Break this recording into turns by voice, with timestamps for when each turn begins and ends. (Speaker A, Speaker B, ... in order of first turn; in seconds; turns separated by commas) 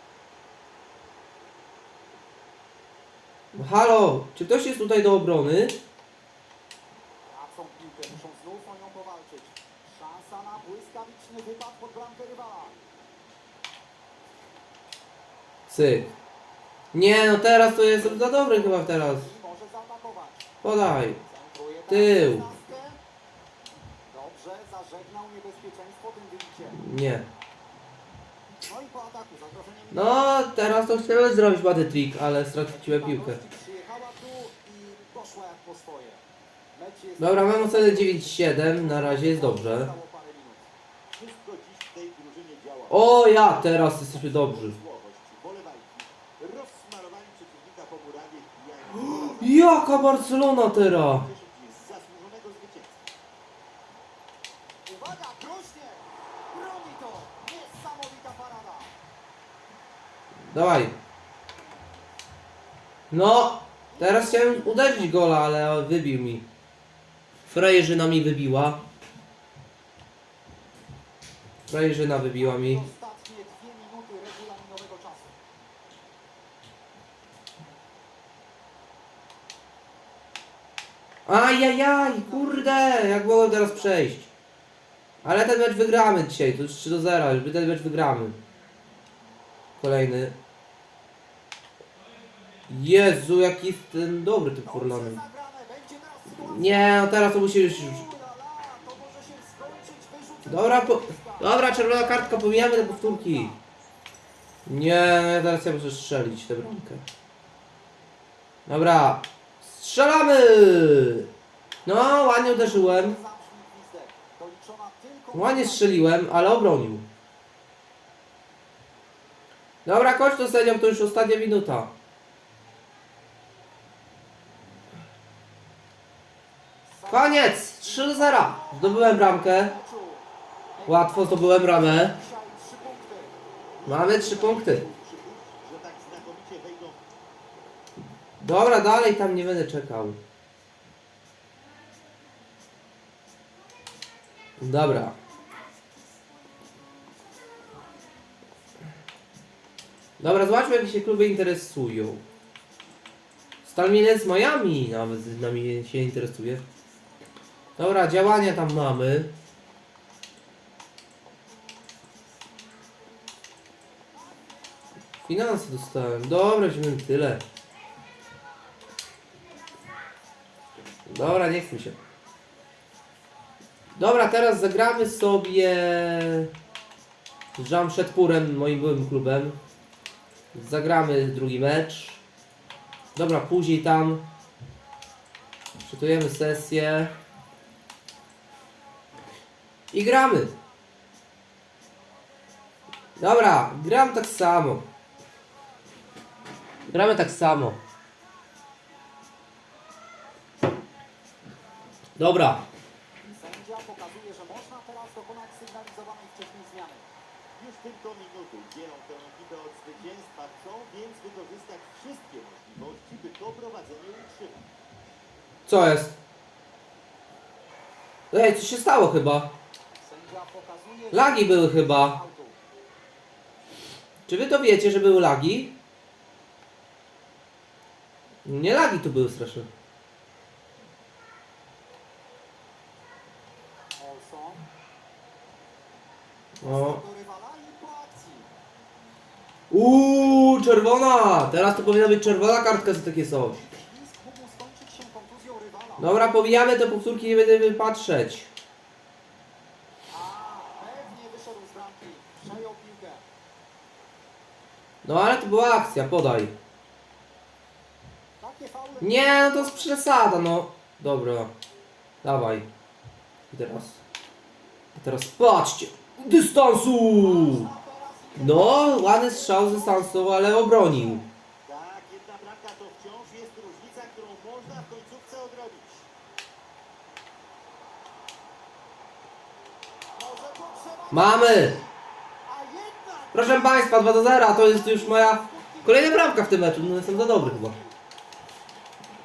Speaker A: 3.5-5.8, Speaker B: 7.3-12.8, Speaker A: 15.7-16.1, Speaker A: 16.9-19.3, Speaker B: 17.8-20.5, Speaker A: 20.6-21.2, Speaker B: 21.2-23.0, Speaker A: 21.9-22.4, Speaker B: 24.1-26.8, Speaker A: 26.8-27.3, Speaker B: 28.6-30.4, Speaker A: 29.9-33.4, Speaker B: 32.7-36.2, Speaker B: 36.7-40.7, Speaker A: 37.2-39.9, Speaker C: 41.1-43.1, Speaker A: 42.9-44.8, Speaker B: 43.7-44.5, Speaker C: 44.4-53.0, Speaker A: 49.0-51.3, Speaker B: 54.9-58.9, Speaker A: 60.5-61.0, Speaker A: 63.1-66.5, Speaker B: 63.9-65.2, Speaker A: 67.5-68.8, Speaker A: 71.7-72.8, Speaker B: 72.2-75.4, Speaker A: 81.3-84.3, Speaker B: 81.8-84.1, Speaker A: 85.2-88.4, Speaker A: 89.8-90.3, Speaker A: 92.7-95.2, Speaker B: 94.7-103.6, Speaker A: 96.4-98.0, Speaker A: 100.5-103.5, Speaker A: 104.7-107.0, Speaker A: 108.7-111.3, Speaker A: 111.8-113.2, Speaker B: 112.2-116.2, Speaker A: 115.3-117.0, Speaker A: 119.8-121.9, Speaker B: 126.9-130.3, Speaker A: 127.1-129.7, Speaker B: 130.8-133.4, Speaker A: 130.9-132.1, Speaker C: 133.8-137.0, Speaker A: 133.8-134.8, Speaker B: 134.0-134.6, Speaker A: 138.4-140.2, Speaker A: 144.6-145.2, Speaker A: 150.2-152.2, Speaker A: 153.6-156.6, Speaker A: 157.8-159.3, Speaker A: 165.3-167.4, Speaker A: 171.1-172.0, Speaker A: 174.0-176.5, Speaker A: 177.6-179.6, Speaker A: 180.5-182.2, Speaker A: 183.2-184.2, Speaker A: 185.8-187.1, Speaker A: 189.9-190.5, Speaker A: 193.2-194.8, Speaker A: 196.9-197.8, Speaker A: 202.2-202.6, Speaker B: 203.3-207.1, Speaker C: 207.6-214.6, Speaker A: 215.7-216.2, Speaker A: 218.3-219.5, Speaker B: 220.0-222.6, Speaker A: 221.1-222.2, Speaker A: 224.3-225.7, Speaker A: 228.4-229.7, Speaker B: 234.0-234.7, Speaker A: 236.6-237.0, Speaker B: 236.6-238.5, Speaker A: 239.7-243.6, Speaker B: 241.4-246.2, Speaker A: 246.0-248.5, Speaker B: 250.1-253.2, Speaker A: 255.0-256.5, Speaker B: 258.4-260.0, Speaker A: 259.0-261.5, Speaker A: 262.2-262.7, Speaker A: 263.5-264.0, Speaker A: 264.9-267.7, Speaker B: 267.1-271.3, Speaker A: 268.4-271.2, Speaker C: 271.6-276.1, Speaker B: 280.2-288.0, Speaker A: 281.1-281.8, Speaker A: 283.3-287.8